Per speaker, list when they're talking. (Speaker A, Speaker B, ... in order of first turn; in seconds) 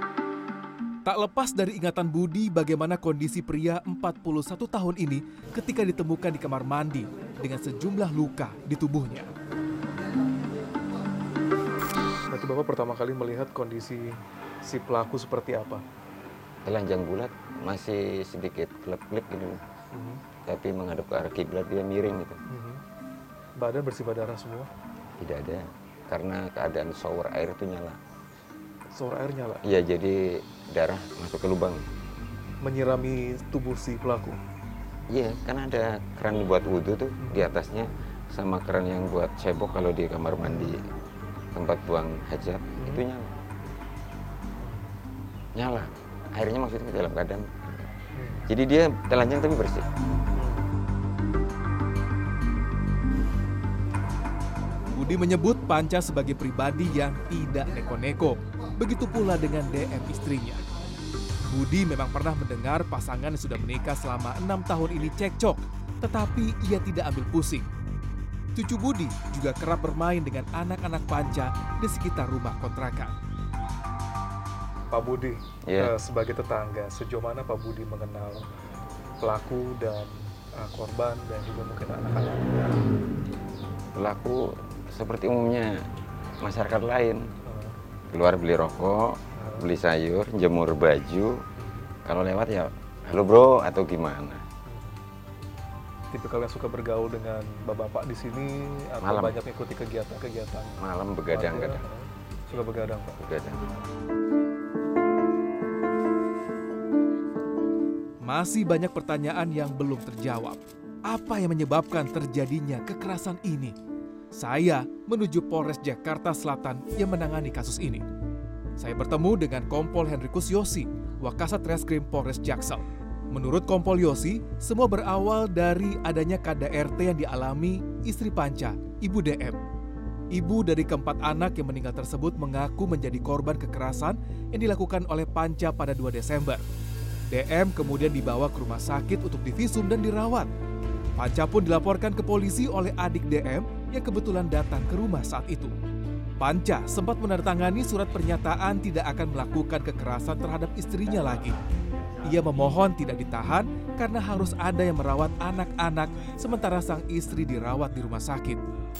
Speaker A: 1.0-9.3, 54.9-60.6, 61.5-67.7, 68.5-73.1, 108.2-113.7, 114.3-118.0, 118.8-129.6, 130.3-136.6, 137.3-140.5, 141.2-145.8, 146.4-151.6, 152.2-158.6
Speaker B: 12.3-15.8, 19.9-20.2, 22.5-22.8, 23.6-24.7, 28.9-29.6, 32.6-34.4, 37.2-37.5, 40.4-40.7, 44.6-45.0, 48.1-48.4, 50.3-50.7, 74.9-78.5, 79.2-82.7, 87.5-87.8, 89.4-89.7, 91.6-91.9, 94.7-95.0, 96.1-103.2
Speaker C: 16.6-19.6, 20.5-22.4, 25.2-28.0, 29.6-31.8, 35.1-40.8, 41.5-43.3, 45.5-47.7, 48.5-49.9, 75.7-75.9, 83.9-85.8, 86.4-87.3, 88.1-91.4, 92.0-94.4, 99.0-99.4, 100.8-101.8, 103.2-103.7